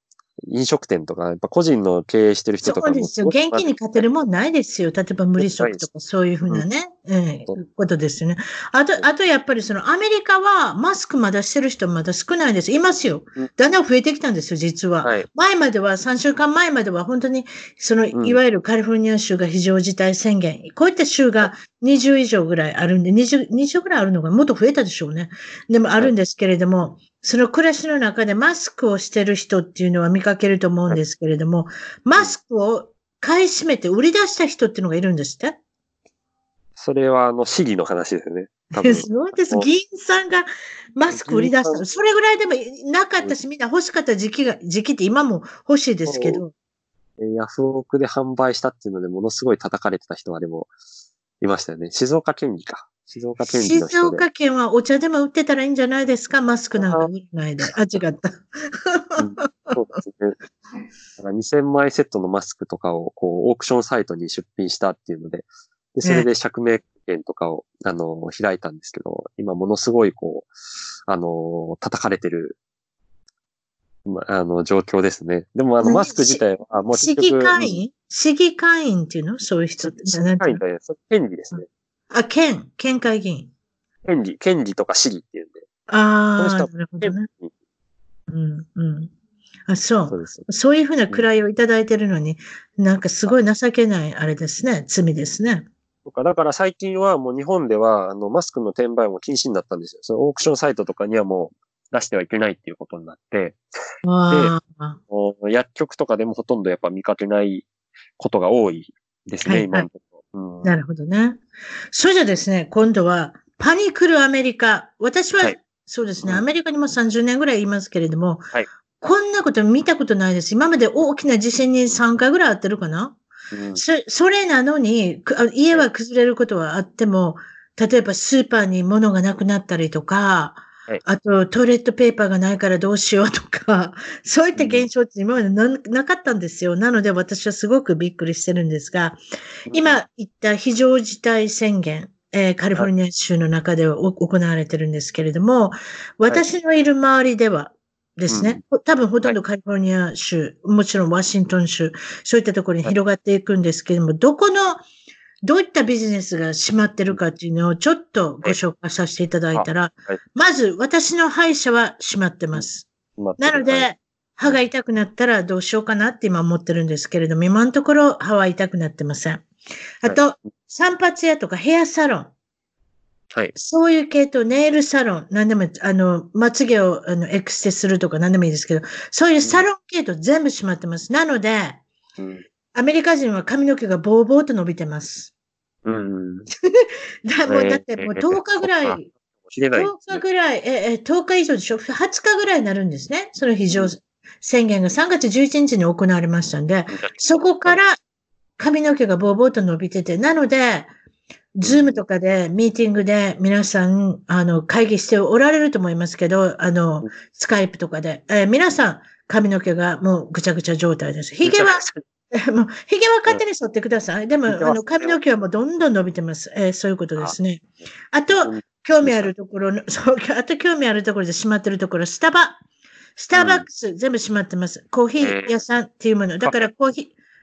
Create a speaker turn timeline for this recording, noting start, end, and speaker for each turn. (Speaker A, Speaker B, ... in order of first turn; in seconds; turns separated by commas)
Speaker A: 0.5-3.7, Speaker B: 2.6-35.6, Speaker A: 5.4-5.8, Speaker A: 18.1-18.4, Speaker A: 36.8-39.7, Speaker B: 38.7-46.5, Speaker A: 41.1-41.8, Speaker A: 46.1-46.4, Speaker A: 47.2-50.7, Speaker A: 51.4-54.2, Speaker B: 53.5-59.8, Speaker A: 56.8-57.1, Speaker A: 59.2-60.4, Speaker A: 61.2-70.5, Speaker A: 71.1-72.6, Speaker A: 74.1-77.8, Speaker B: 75.8-76.4, Speaker B: 76.9-80.6, Speaker A: 79.8-81.7, Speaker B: 82.1-83.5, Speaker A: 84.0-85.6, Speaker B: 85.9-87.3, Speaker A: 86.4-87.5, Speaker B: 88.3-89.1, Speaker B: 89.7-95.7, Speaker A: 90.1-90.5, Speaker A: 96.0-103.6, Speaker B: 104.0-105.0, Speaker A: 105.1-107.7, Speaker A: 108.2-110.8, Speaker B: 109.4-109.9, Speaker B: 110.6-111.4, Speaker B: 111.9-118.5, Speaker B: 119.0-123.2, Speaker A: 123.5-123.8, Speaker B: 123.7-139.2, Speaker A: 134.6-134.9, Speaker A: 139.7-140.0, Speaker B: 139.7-154.8, Speaker A: 148.3-148.6, Speaker B: 155.4-169.5, Speaker A: 159.5-160.2, Speaker A: 163.2-163.9, Speaker B: 170.0-172.3, Speaker B: 173.6-181.8, Speaker A: 182.2-182.4, Speaker B: 182.7-185.3, Speaker A: 185.8-186.5, Speaker B: 186.6-189.1, Speaker A: 187.5-190.2, Speaker B: 189.7-198.0, Speaker A: 196.9-197.8, Speaker B: 198.6-200.9, Speaker B: 201.6-222.6, Speaker A: 201.6-202.0, Speaker A: 211.4-212.0, Speaker A: 214.5-215.2, Speaker A: 218.3-219.3, Speaker B: 223.2-227.1, Speaker A: 223.3-223.7, Speaker A: 225.2-225.6